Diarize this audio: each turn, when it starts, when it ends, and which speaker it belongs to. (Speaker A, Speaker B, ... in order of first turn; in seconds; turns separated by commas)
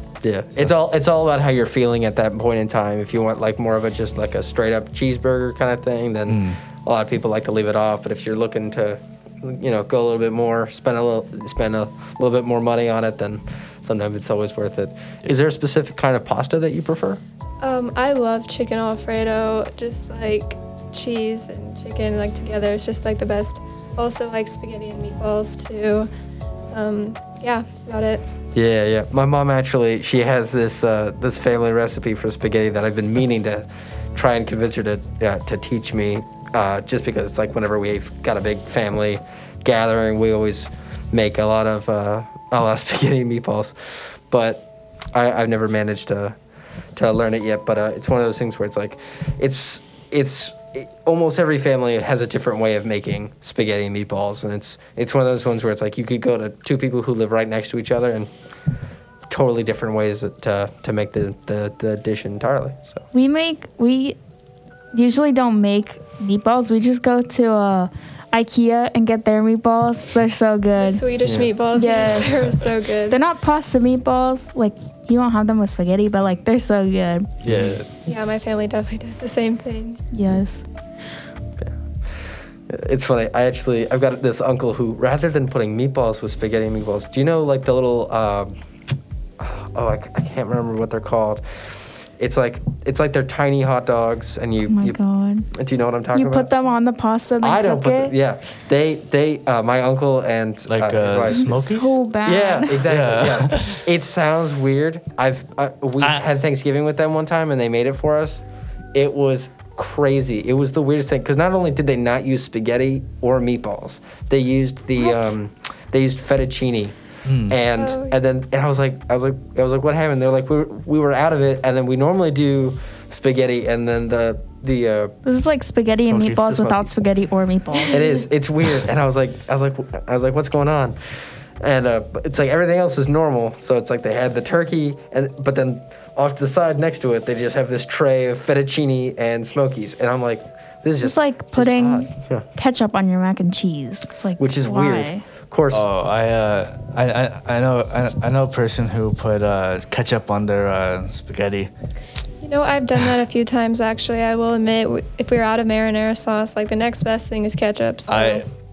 Speaker A: 0.2-17.2, Speaker B: 6.3-6.6, Speaker C: 17.6-26.1, Speaker C: 26.7-28.2, Speaker A: 28.5-46.4, Speaker A: 46.9-58.3, Speaker A: 59.3-63.0, Speaker D: 63.1-64.2, Speaker D: 64.9-71.0, Speaker C: 70.8-73.2, Speaker A: 71.2-71.5, Speaker D: 71.7-72.5, Speaker D: 73.1-77.3, Speaker A: 77.4-77.8, Speaker B: 77.4-77.9, Speaker C: 78.0-80.0, Speaker D: 80.1-80.6, Speaker A: 82.7-88.5, Speaker A: 89.4-91.4, Speaker A: 92.2-95.0, Speaker D: 94.7-95.5, Speaker A: 95.5-96.5, Speaker D: 96.1-98.1, Speaker A: 97.4-101.6, Speaker B: 100.7-102.0, Speaker D: 101.3-102.8, Speaker A: 102.2-117.0, Speaker B: 102.8-103.8, Speaker D: 115.0-115.2, Speaker B: 117.2-117.6, Speaker A: 117.5-125.1, Speaker C: 117.7-118.2, Speaker D: 125.2-128.2, Speaker B: 126.0-126.5, Speaker A: 126.4-126.9, Speaker A: 127.7-130.9, Speaker A: 131.6-142.5, Speaker D: 141.0-145.2, Speaker A: 144.4-145.8, Speaker B: 145.7-151.7, Speaker C: 152.4-158.4, Speaker B: 158.1-158.5